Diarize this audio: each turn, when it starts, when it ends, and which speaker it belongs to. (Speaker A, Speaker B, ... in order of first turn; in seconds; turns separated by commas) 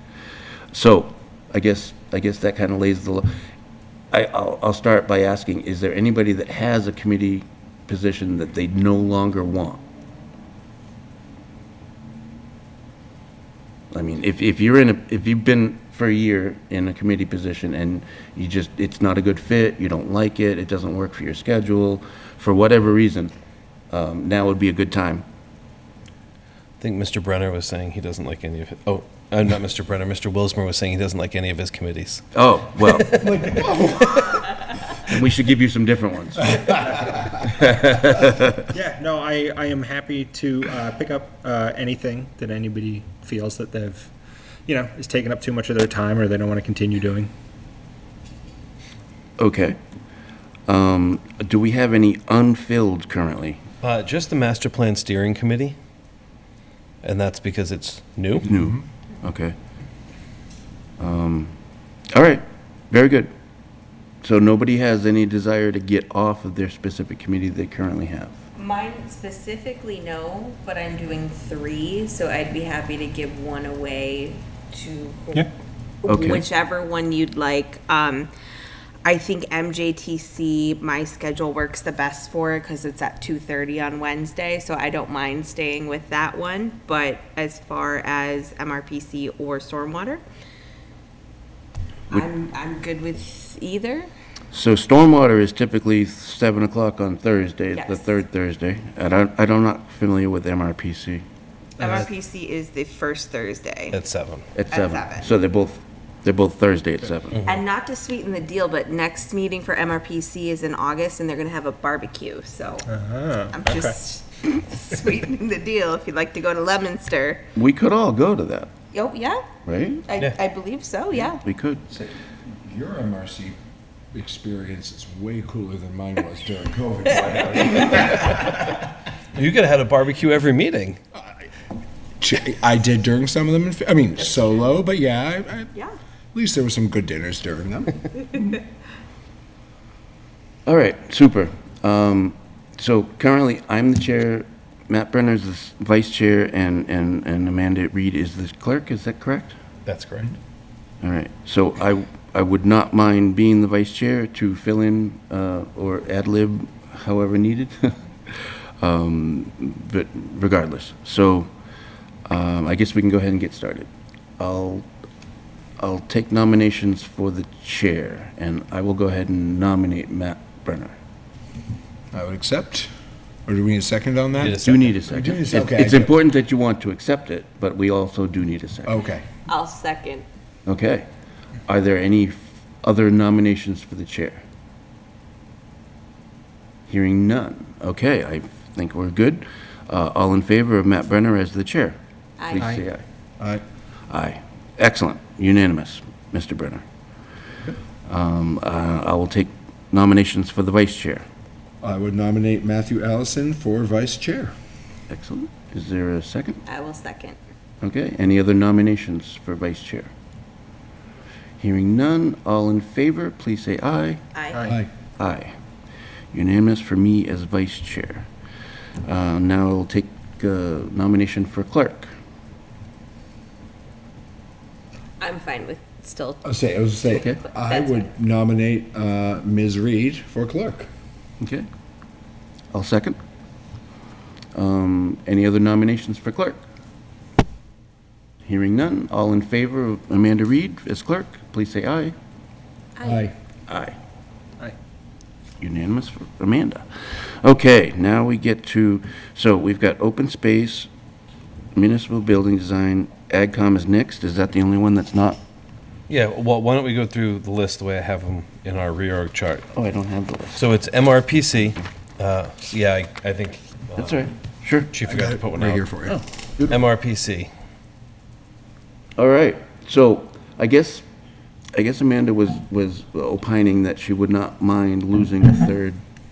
Speaker A: 0.7-3.3, Speaker A: 4.1-9.8, Speaker A: 13.9-23.3, Speaker A: 23.9-25.2, Speaker B: 26.8-32.3, Speaker A: 32.3-33.2, Speaker B: 32.8-33.5, Speaker C: 33.2-34.4, Speaker A: 35.0-36.8, Speaker A: 37.4-38.7, Speaker D: 38.7-44.1, Speaker D: 44.7-47.3, Speaker A: 49.4-49.8, Speaker A: 50.7-53.6, Speaker B: 53.8-55.8, Speaker B: 57.0-58.5, Speaker A: 58.4-59.5, Speaker A: 61.0-61.5, Speaker A: 62.1-63.3, Speaker A: 64.2-68.4, Speaker E: 68.5-75.5, Speaker E: 76.0-78.3, Speaker A: 76.0-76.4, Speaker E: 79.0-90.2, Speaker E: 92.1-94.1, Speaker A: 94.5-101.2, Speaker E: 97.7-98.1, Speaker E: 101.8-104.0, Speaker B: 103.9-104.5, Speaker A: 104.5-107.4, Speaker E: 104.7-105.2, Speaker E: 107.4-112.9, Speaker D: 112.8-113.9, Speaker E: 113.5-117.4, Speaker A: 117.5-118.7, Speaker E: 118.9-119.4, Speaker A: 119.6-120.0, Speaker E: 120.1-121.4, Speaker A: 121.1-121.8, Speaker C: 121.9-123.6, Speaker C: 124.1-128.6, Speaker B: 129.3-131.0, Speaker C: 132.2-135.7, Speaker E: 134.2-134.6, Speaker C: 136.3-138.1, Speaker A: 140.7-149.6, Speaker B: 149.8-150.4, Speaker A: 151.0-161.5, Speaker A: 162.3-164.9, Speaker A: 165.8-170.9, Speaker C: 172.1-172.9, Speaker C: 173.4-176.1, Speaker B: 174.4-175.0, Speaker A: 174.6-178.9, Speaker C: 178.8-179.2, Speaker E: 179.5-180.2, Speaker A: 180.7-181.1, Speaker A: 181.7-184.4, Speaker A: 186.9-191.9, Speaker E: 192.4-192.8, Speaker A: 192.5-193.0, Speaker A: 194.1-196.8, Speaker A: 198.1-201.2, Speaker C: 201.8-204.5, Speaker A: 205.1-206.6, Speaker E: 206.7-207.4, Speaker A: 207.8-210.1, Speaker A: 211.6-214.2, Speaker E: 214.3-214.6, Speaker A: 215.2-215.5, Speaker A: 216.3-218.3, Speaker A: 219.0-222.1, Speaker E: 225.2-226.4, Speaker C: 226.4-230.9, Speaker A: 227.1-227.4, Speaker E: 227.5-228.1, Speaker A: 231.4-231.7, Speaker A: 232.7-233.2, Speaker A: 234.5-236.6, Speaker A: 238.4-242.1, Speaker E: 243.0-243.3, Speaker C: 243.0-243.3, Speaker A: 243.7-244.0, Speaker A: 245.6-250.9, Speaker A: 251.7-255.4, Speaker B: 256.1-259.7, Speaker A: 259.7-260.6, Speaker B: 260.5-264.2, Speaker A: 263.9-264.9, Speaker B: 264.9-265.9, Speaker C: 265.1-266.2, Speaker A: 266.1-266.8, Speaker B: 266.7-267.5, Speaker A: 269.2-271.0, Speaker A: 271.7-276.0